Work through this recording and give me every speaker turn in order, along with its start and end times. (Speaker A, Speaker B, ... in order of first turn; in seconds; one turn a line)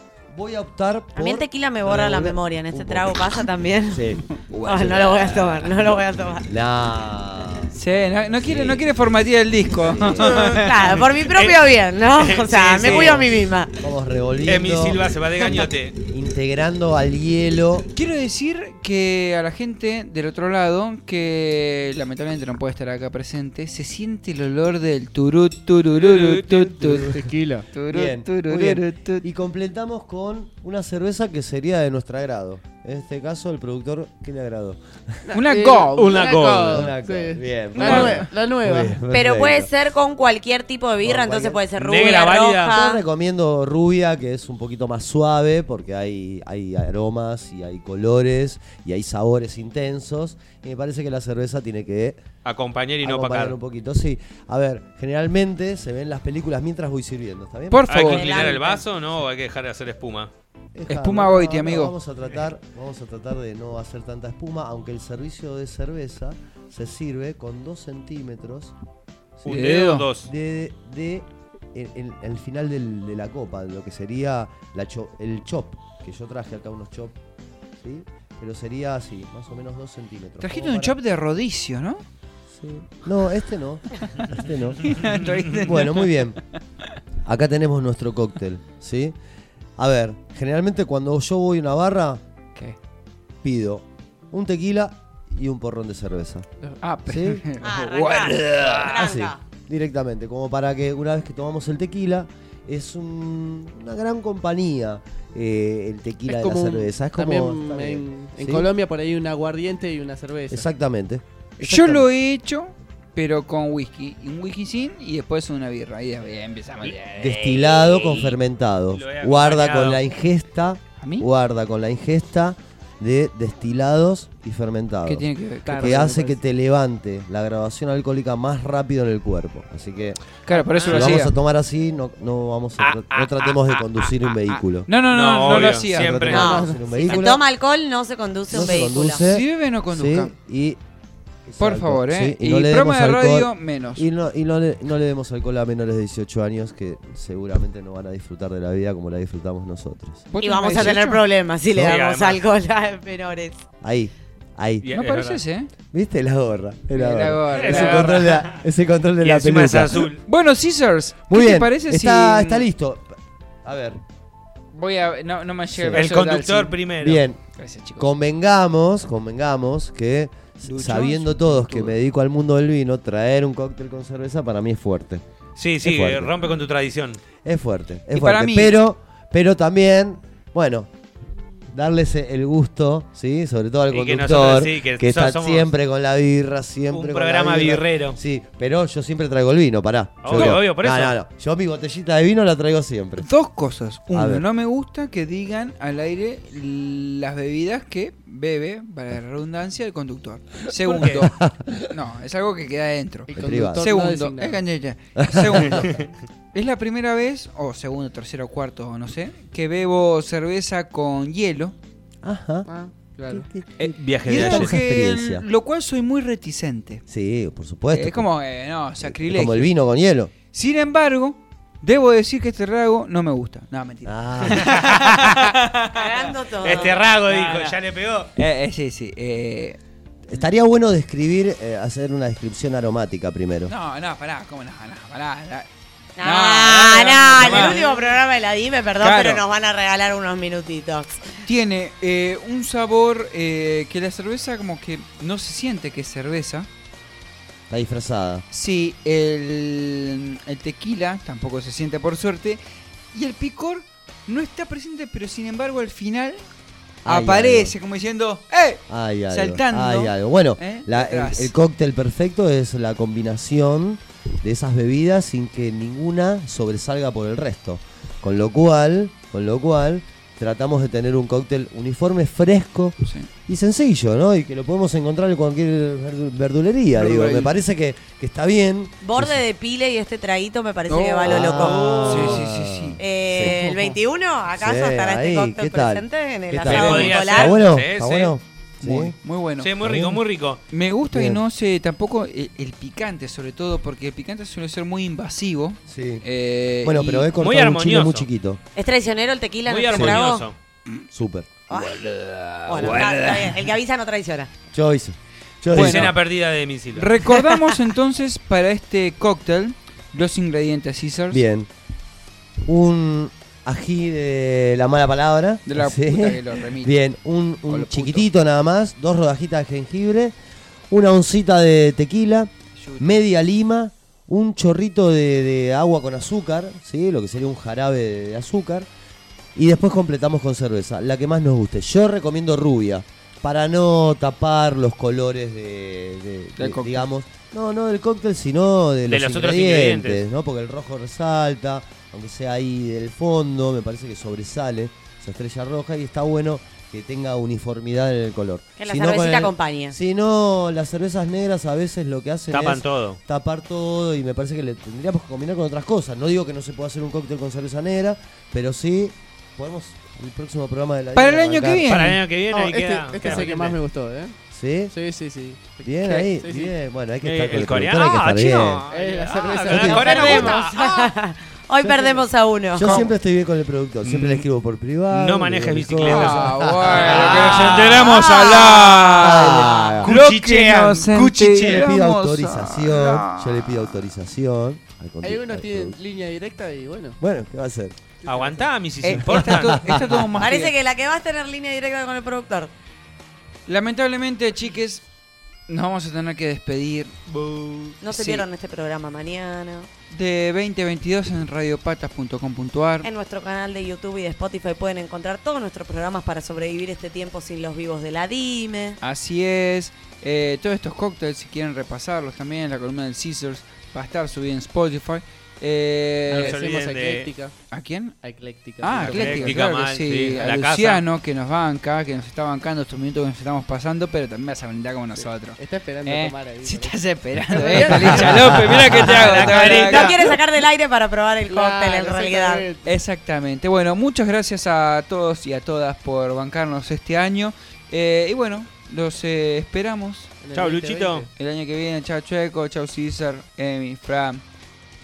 Speaker A: 0.3-5.7
Speaker B: 1.1-4.0
Speaker C: 4.5-5.0
Speaker B: 4.6-6.5
Speaker A: 6.5-9.0
Speaker C: 7.7-10.7
Speaker A: 9.7-10.4
Speaker D: 10.2-13.3
Speaker B: 10.4-13.7
Speaker A: 12.8-15.1
Speaker D: 14.4-16.0
Speaker A: 16.0-17.9
Speaker C: 17.9-27.2
Speaker D: 26.1-26.4
Speaker A: 26.8-27.1
Speaker E: 26.9-27.7
Speaker C: 27.7-29.2
Speaker A: 27.9-35.2
Speaker E: 35.3-39.0
Speaker C: 35.3-36.0
Speaker D: 35.9-36.9
Speaker A: 36.6-39.7
Speaker C: 37.8-38.2
Speaker B: 39.1-43.0
Speaker A: 41.0-41.6
Speaker D: 41.7-42.7
Speaker A: 42.7-52.2
Speaker D: 52.4-53.5
Speaker A: 53.0-57.9
Speaker C: 57.7-58.3
Speaker D: 57.9-60.3
Speaker B: 58.0-58.8
Speaker A: 60.7-68.7
Speaker C: 60.9-61.9
Speaker A: 69.4-69.7
Speaker D: 69.4-70.3
Speaker C: 69.5-70.0
Speaker A: 70.2-77.2
Speaker A: 77.8-81.0
Speaker C: 80.4-82.0
Speaker A: 82.5-85.0
Speaker C: 84.8-86.2
Speaker A: 85.5-86.4
Speaker A: 87.2-89.1
Speaker A: 89.8-92.2
Speaker A: 93.4-96.5
Speaker C: 96.8-99.0
Speaker A: 97.1-97.4
Speaker B: 97.6-99.4
Speaker D: 98.5-99.0
Speaker A: 98.9-108.7
Speaker E: 106.3-110.7
Speaker A: 110.5-112.0
Speaker C: 111.6-118.4
Speaker A: 117.2-130.2
Speaker D: 118.9-120.0
Speaker C: 121.0-121.2
Speaker C: 125.0-126.2
Speaker E: 125.6-126.4
Speaker C: 130.4-131.3
Speaker A: 130.7-134.9
Speaker D: 130.8-131.2
Speaker D: 132.8-134.2
Speaker C: 134.8-136.2
Speaker D: 135.1-136.5
Speaker A: 135.4-137.4
Speaker B: 136.3-139.2
Speaker E: 136.3-136.9
Speaker A: 138.5-140.8
Speaker C: 139.2-140.3
Speaker A: 141.4-150.2
Speaker C: 141.6-144.1
Speaker C: 150.3-151.2
Speaker B: 150.4-153.6
Speaker D: 151.8-152.4
Speaker A: 153.8-154.9
Speaker D: 154.8-155.4
Speaker C: 154.9-155.7
Speaker A: 155.9-160.1
Speaker C: 156.9-158.2
Speaker D: 157.5-158.5
Speaker D: 159.2-160.2
Speaker C: 160.2-162.7
Speaker A: 161.3-164.0
Speaker C: 164.7-166.8
Speaker A: 165.7-166.1
Speaker D: 165.9-167.2
Speaker A: 167.0-167.4
Speaker C: 167.6-168.1
Speaker A: 168.0-175.2
Speaker C: 170.6-172.0
Speaker D: 175.6-177.2
Speaker A: 175.8-176.5
Speaker A: 177.4-180.9
Speaker C: 178.1-178.8
Speaker A: 181.7-193.2
Speaker D: 183.9-185.7
Speaker D: 186.9-188.2
Speaker D: 190.2-191.2
Speaker C: 193.2-201.3
Speaker A: 194.1-194.4
Speaker D: 200.9-201.2
Speaker A: 200.9-201.9
Speaker C: 201.9-205.9
Speaker E: 203.3-204.6
Speaker A: 203.3-203.8
Speaker A: 205.2-205.9
Speaker C: 206.5-211.7
Speaker A: 212.2-212.7
Speaker E: 212.7-213.5
Speaker A: 213.3-215.4
Speaker C: 213.8-217.0
Speaker D: 213.9-214.7
Speaker A: 217.1-218.3
Speaker C: 217.9-219.7
Speaker A: 219.0-220.3
Speaker C: 220.5-227.7
Speaker A: 224.0-224.8
Speaker D: 224.5-225.5
Speaker B: 225.9-227.0
Speaker D: 226.6-228.3
Speaker C: 228.3-229.8
Speaker A: 230.3-233.7
Speaker C: 233.7-235.7
Speaker B: 236.2-241.3
Speaker C: 236.2-237.8
Speaker D: 237.4-237.8
Speaker C: 239.0-239.4
Speaker C: 241.4-246.7
Speaker A: 247.7-248.4
Speaker C: 248.5-256.4
Speaker A: 257.0-257.8
Speaker C: 257.0-261.5
Speaker A: 258.9-279.4
Speaker C: 273.0-273.3
Speaker C: 276.9-277.6
Speaker B: 279.0-282.0
Speaker C: 280.9-283.6
Speaker A: 281.2-283.6
Speaker D: 281.6-282.4
Speaker B: 283.0-287.6
Speaker A: 284.5-289.1
Speaker D: 286.6-288.3
Speaker C: 288.8-289.7
Speaker D: 289.6-290.6
Speaker A: 289.8-290.2
Speaker C: 290.7-297.3
Speaker A: 291.0-291.4
Speaker A: 295.9-296.2
Speaker A: 296.8-298.6
Speaker D: 297.4-298.3
Speaker B: 298.8-300.4
Speaker D: 299.6-300.5
Speaker A: 299.9-300.2
Speaker A: 301.1-301.6
Speaker B: 301.7-302.0
Speaker C: 301.7-303.6
Speaker B: 302.7-304.5
Speaker A: 304.7-306.2
Speaker D: 305.7-307.1
Speaker C: 305.7-306.2
Speaker C: 306.9-311.4
Speaker A: 311.3-311.7
Speaker A: 312.6-320.4
Speaker C: 315.6-317.0
Speaker C: 317.7-318.3
Speaker A: 320.9-328.9
Speaker C: 322.7-323.1
Speaker A: 329.6-362.0
Speaker C: 336.6-337.1
Speaker D: 339.1-340.2
Speaker B: 348.8-349.9
Speaker D: 352.5-353.2
Speaker C: 361.1-362.2
Speaker D: 361.9-363.8
Speaker E: 362.5-364.4
Speaker A: 364.5-364.9
Speaker E: 364.9-366.7
Speaker A: 365.8-368.8
Speaker D: 367.2-371.1
Speaker E: 368.9-370.7
Speaker A: 369.7-370.0
Speaker B: 369.8-373.0
Speaker A: 371.8-378.0
Speaker C: 372.8-373.1
Speaker D: 374.0-374.5
Speaker D: 375.1-381.9
Speaker C: 376.1-384.0
Speaker B: 377.9-379.7
Speaker A: 379.2-380.1
Speaker A: 381.5-386.0
Speaker E: 385.2-387.2
Speaker A: 387.2-388.0
Speaker E: 388.2-388.6
Speaker D: 388.2-389.9
Speaker C: 389.0-390.7
Speaker A: 389.1-390.3
Speaker B: 390.4-392.7
Speaker C: 393.6-395.0
Speaker C: 395.7-397.1
Speaker D: 397.3-398.0
Speaker B: 398.0-399.9
Speaker C: 398.1-398.4
Speaker C: 400.1-403.1
Speaker B: 403.0-409.0
Speaker C: 409.0-416.6
Speaker D: 416.3-417.3
Speaker E: 416.3-417.5
Speaker C: 417.7-418.1
Speaker E: 418.2-419.6
Speaker C: 418.8-430.2
Speaker D: 418.9-421.0
Speaker E: 425.2-428.7
Speaker D: 428.1-430.3
Speaker B: 429.4-432.6
Speaker E: 431.5-432.9
Speaker C: 432.8-440.3
Speaker E: 440.4-441.3
Speaker D: 440.5-441.3
Speaker C: 441.4-444.4